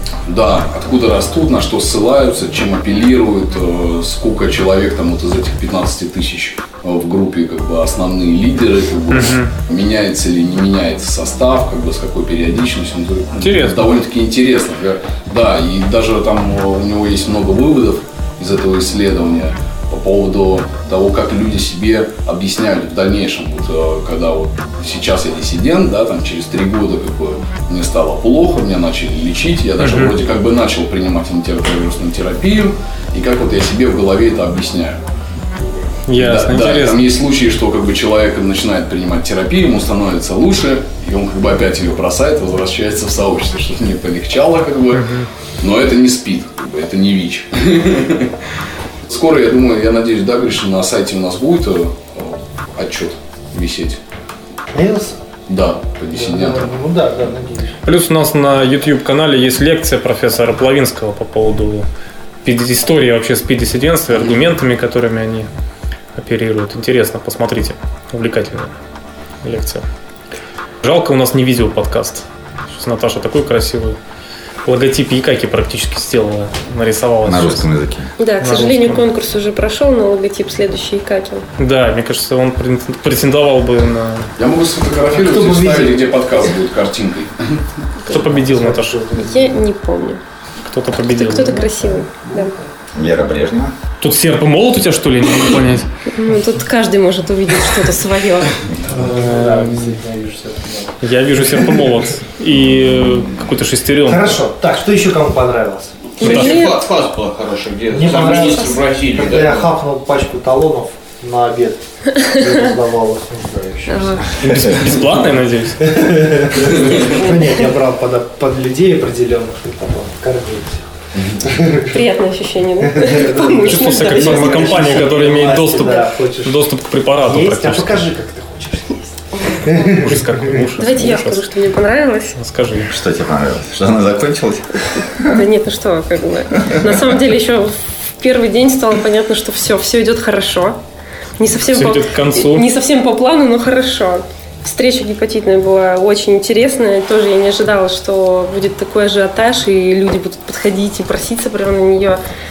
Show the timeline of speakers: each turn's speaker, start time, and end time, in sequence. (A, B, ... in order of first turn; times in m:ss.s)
0:00.3-0:35.0 A
0:09.1-0:09.5 B
0:13.4-0:13.9 B
0:29.8-0:30.2 B
0:35.6-0:45.0 A
0:36.1-0:37.0 B
0:44.9-0:45.3 B
0:45.6-0:48.3 A
0:49.1-0:54.0 A
0:54.7-0:55.2 C
0:55.5-0:56.7 A
0:56.1-0:57.8 C
0:57.8-1:01.9 B
1:02.4-1:05.5 B
1:06.2-1:08.7 B
1:09.4-1:09.8 B
1:10.8-1:14.0 B
1:14.7-1:17.7 B
1:17.2-1:18.1 D
1:18.2-1:21.4 E
1:18.4-1:19.0 B
1:21.6-1:24.3 B
1:24.4-1:27.6 A
1:25.1-1:26.1 C
1:28.1-1:29.0 B
1:28.1-1:29.6 C
1:29.2-1:30.2 E
1:30.7-1:31.7 B
1:31.0-1:32.5 E
1:31.6-1:32.7 C
1:32.9-1:33.8 D
1:34.0-1:35.9 B
1:36.1-1:38.6 E
1:38.8-1:41.9 C
1:39.1-1:40.0 B
1:41.0-1:44.4 B
1:44.0-1:46.2 C
1:46.2-1:46.8 E
1:46.2-1:49.7 F
1:46.2-1:46.6 B
1:47.9-1:54.2 C
1:48.4-1:48.7 E
1:53.9-1:54.3 E
1:54.4-1:55.9 B
1:55.8-2:00.8 C
2:01.4-2:02.0 C
2:01.9-2:05.2 E
2:02.8-2:10.6 C
2:03.7-2:08.1 B
2:09.8-2:11.5 B
2:10.8-2:12.4 E
2:12.4-2:12.9 B
2:12.9-2:15.4 D
2:15.2-2:20.8 E
2:21.4-2:32.2 E
2:21.7-2:22.7 B